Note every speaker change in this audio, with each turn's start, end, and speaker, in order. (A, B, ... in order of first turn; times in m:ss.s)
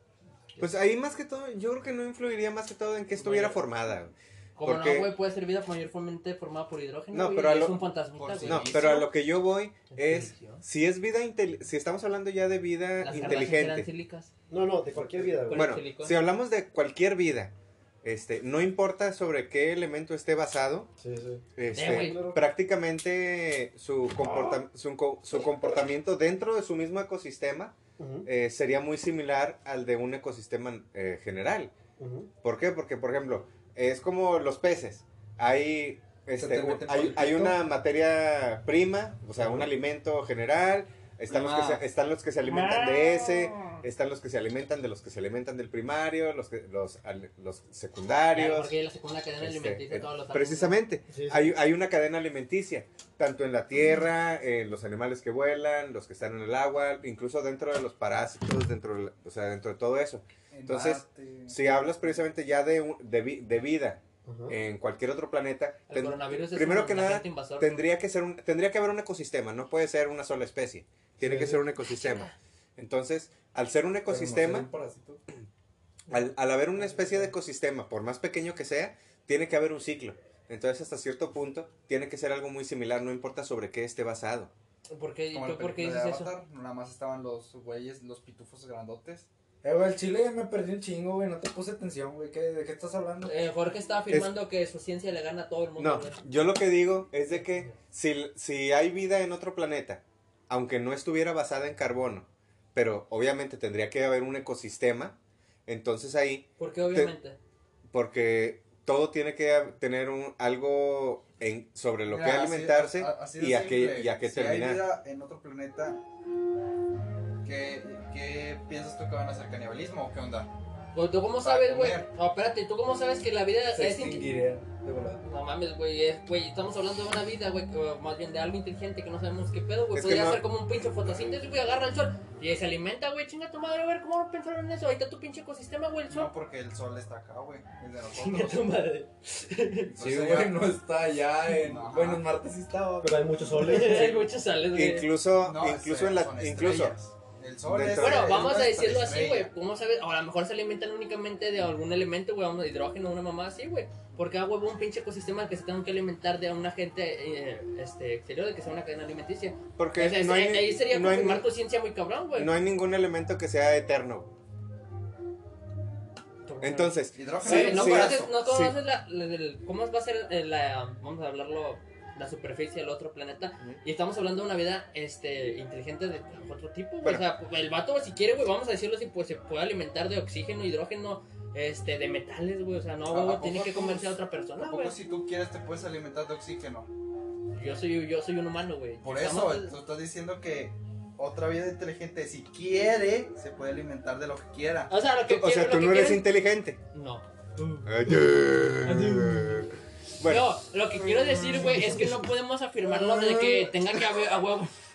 0:00.6-0:05.1 A
0:03.2-0:03.6 B
0:04.6-0:09.0 B
0:07.1-0:07.8 A
0:08.2-0:09.1 C
0:08.4-0:13.9 A
0:09.9-0:10.6 B
0:13.0-0:14.3 B
0:14.5-0:15.7 D
0:15.0-0:17.5 A
0:15.5-0:16.2 B
0:18.0-0:20.9 A
0:21.0-0:22.4 D
0:21.6-0:31.7 A
0:21.7-0:22.3 B
0:28.0-0:28.3 D
0:32.0-0:32.3 D
0:32.4-0:48.8 A
0:36.4-0:37.6 E
0:48.3-0:50.8 B
0:49.4-1:14.7 A
0:51.1-0:51.5 D
1:00.5-1:02.0 C
1:04.2-1:04.6 D
1:05.9-1:07.8 B
1:11.2-1:11.6 D
1:14.1-1:15.2 E
1:16.1-1:24.5 A
1:24.9-1:26.3 B
1:25.3-1:29.3 C
1:29.6-1:33.3 E
1:33.2-1:36.2 B
1:35.8-1:45.2 A
1:45.7-1:47.1 A
1:46.6-1:47.4 B
1:47.9-1:54.8 A
1:52.1-1:56.0 C
1:57.4-2:00.5 C
2:00.9-2:04.3 B
2:01.4-2:02.1 C
2:03.7-2:05.2 E
2:05.2-2:16.3 B
2:09.9-2:10.4 A
2:16.1-2:18.7 C
2:18.2-2:19.9 B
2:19.9-2:20.6 C
2:20.0-2:23.3 E
2:21.6-2:22.2 C
2:23.0-2:24.3 D
2:23.6-2:25.1 B
2:24.7-2:27.0 A
2:25.4-2:29.5 C
2:27.6-2:28.4 A
2:28.0-2:42.5 B
2:39.8-2:41.5 A
2:42.4-2:44.3 A
2:46.4-3:05.0 B
2:46.6-2:48.8 A
2:47.1-2:48.3 C
3:03.1-3:06.9 C
3:07.5-3:09.7 B
3:09.0-3:14.9 C
3:14.9-3:16.3 B
3:15.3-3:16.8 A
3:16.9-3:17.2 B
3:17.8-3:20.6 A
3:18.8-3:19.3 B
3:20.2-3:24.7 B